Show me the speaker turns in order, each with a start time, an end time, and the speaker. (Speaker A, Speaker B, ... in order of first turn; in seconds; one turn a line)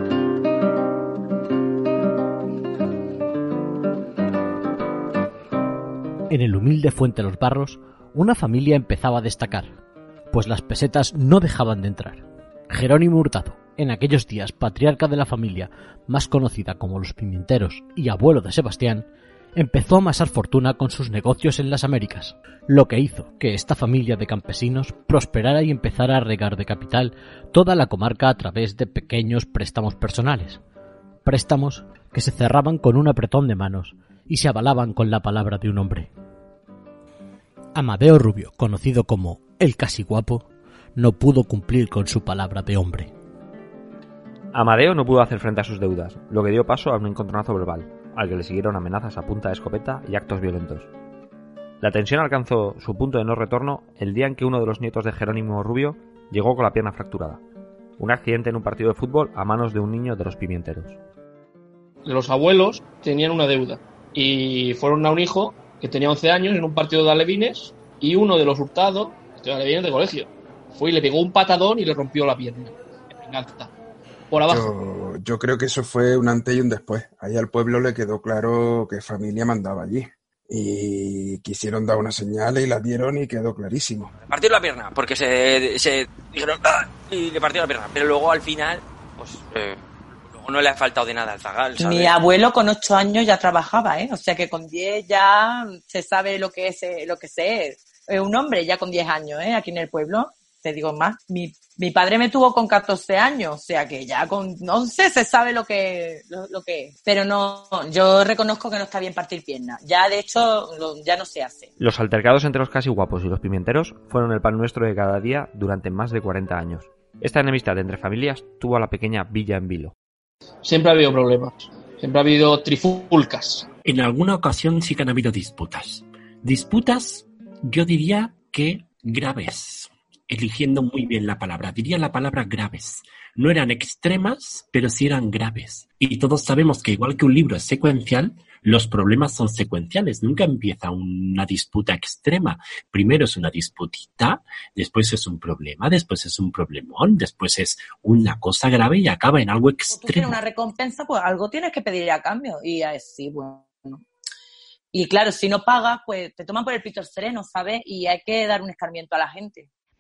Speaker A: 6.3-9.8
Speaker A: 10.3-30.6
Speaker A: 31.2-36.1
Speaker A: 37.8-43.1
Speaker B: 44.5-50.9
Speaker B: 51.8-57.4
Speaker B: 58.0-61.0
Speaker C: 62.0-73.7
Speaker C: 74.3-74.7
Speaker D: 74.5-84.1
Speaker E: 84.2-92.1
Speaker F: 91.8-111.7
Speaker B: 111.8-119.9
Speaker C: 120.6-123.7
Speaker G: 123.8-150.4
Speaker F: 149.9-154.0
Speaker F: 154.9-159.7